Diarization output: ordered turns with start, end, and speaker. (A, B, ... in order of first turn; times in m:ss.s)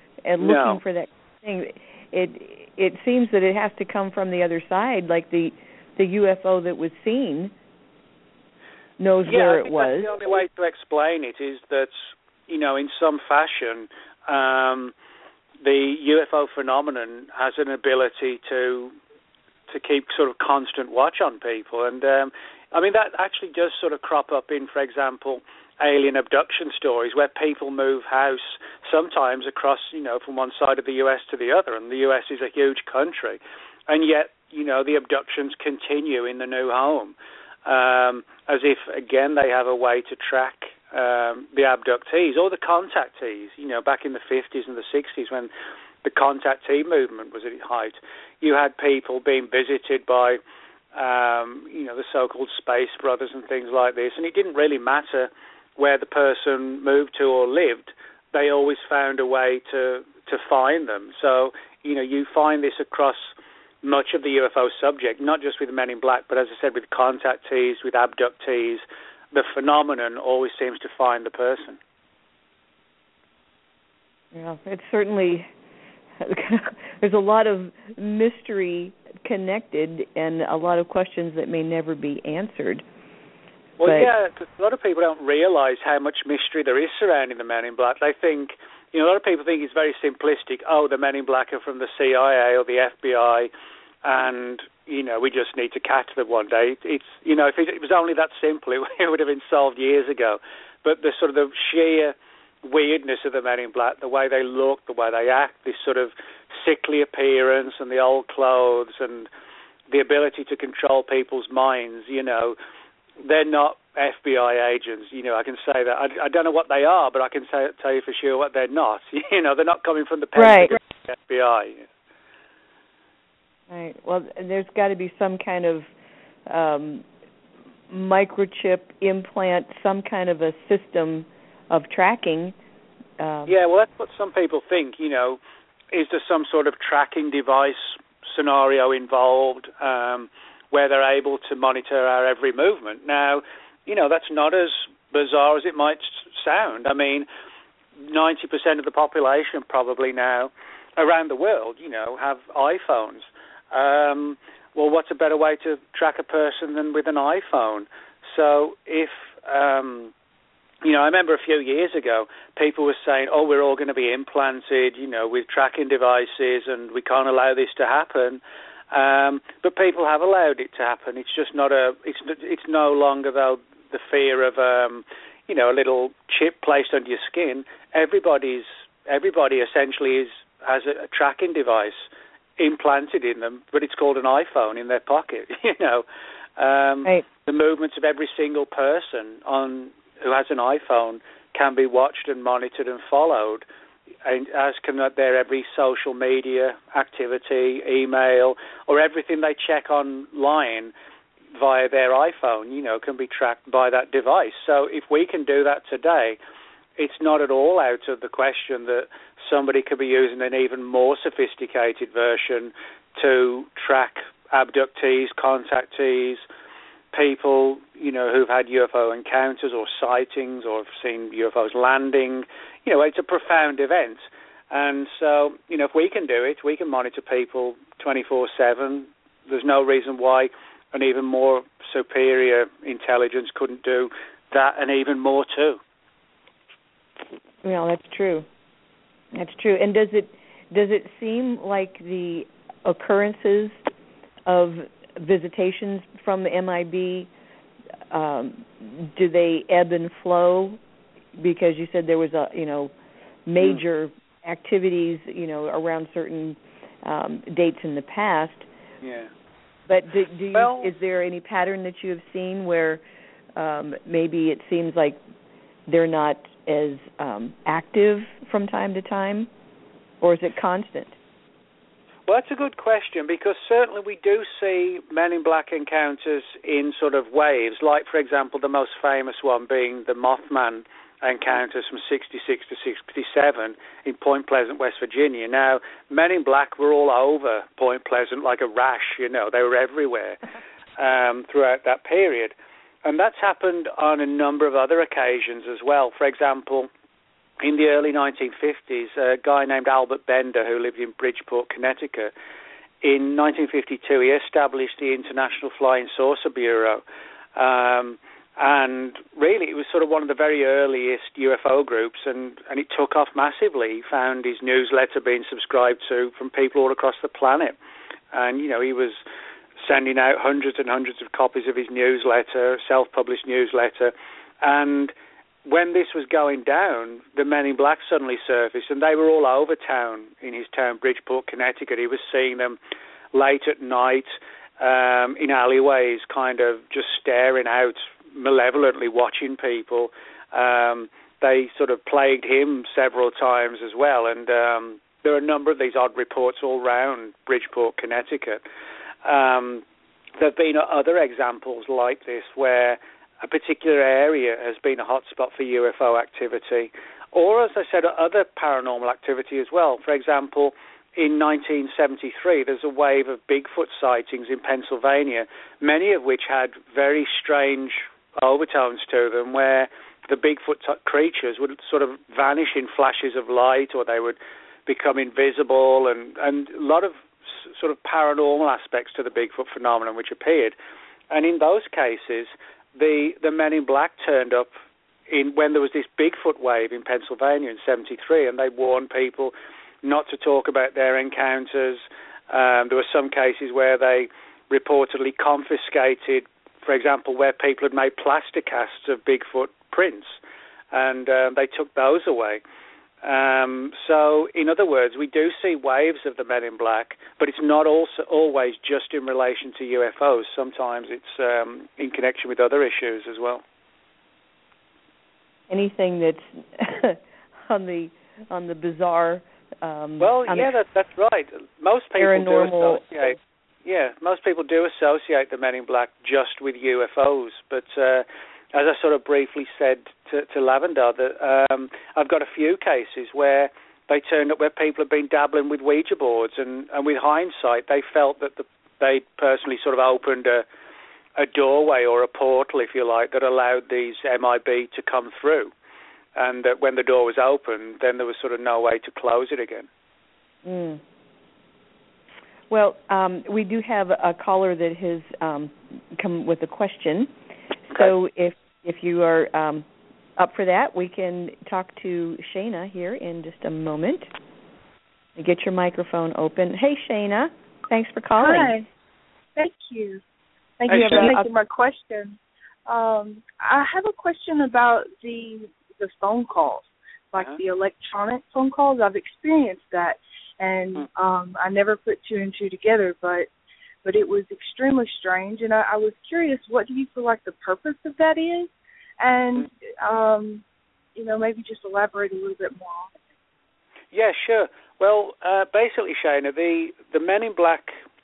0:00.3-0:07.5 A
0:00.4-0:00.8 B
0:09.0-0:10.2 A
0:09.2-0:14.9 B
0:15.6-0:18.9 B
0:19.7-0:45.5 B
0:46.0-0:50.4 B
0:50.9-1:11.8 B
1:14.3-1:15.5 A
1:16.2-1:22.8 A
1:23.8-1:33.5 B
1:23.8-1:24.1 A
1:34.0-1:49.3 B
1:49.9-1:52.6 B
1:53.2-2:01.8 B
2:00.3-2:00.7 A
2:03.7-2:05.9 A
2:06.4-2:07.0 A
2:07.9-2:12.5 A
2:13.2-2:13.6 A
2:13.5-2:15.4 B
2:15.9-2:27.3 B
2:28.0-2:40.1 B
2:40.8-3:06.0 B
3:06.6-3:13.6 B
3:14.2-3:20.9 B
3:21.5-3:26.4 B
3:27.0-3:36.4 B
3:37.1-3:55.8 B
3:57.6-3:58.4 A
3:59.3-4:03.8 A
4:04.4-4:07.3 A
4:08.1-4:10.8 A
4:11.4-4:12.9 A
4:13.5-4:18.6 A
4:19.0-4:19.3 B
4:19.9-4:23.0 A
4:20.5-4:20.9 B
4:23.6-4:25.2 A
4:25.9-4:29.5 A
4:30.2-4:31.1 A
4:32.3-4:50.4 B
4:51.0-4:52.5 B
4:53.0-4:56.9 B
4:57.6-5:02.3 B
5:03.0-5:07.0 B
5:07.5-5:17.8 B
5:18.3-5:19.2 B
5:19.8-5:25.1 B
5:25.6-5:32.8 B
5:33.3-5:48.6 B
5:49.2-5:49.8 B
5:50.4-6:20.7 B
6:21.3-6:24.7 B
6:25.3-6:40.4 B
6:40.9-6:42.6 B
6:43.2-6:53.6 B
6:55.7-7:00.7 A
7:00.2-7:20.6 B
7:02.2-7:03.1 A
7:21.4-7:25.7 B
7:26.3-7:29.9 B
7:30.6-7:31.0 A
7:32.7-7:37.3 A
7:37.9-7:39.8 A
7:40.4-7:44.3 A
7:45.4-7:48.7 A
7:48.4-7:48.9 C
7:49.5-7:50.2 C
7:50.8-8:03.5 C
7:50.9-7:51.3 B
7:50.9-7:51.5 A
8:04.0-8:10.6 C
8:11.1-8:13.1 C
8:14.1-8:18.0 B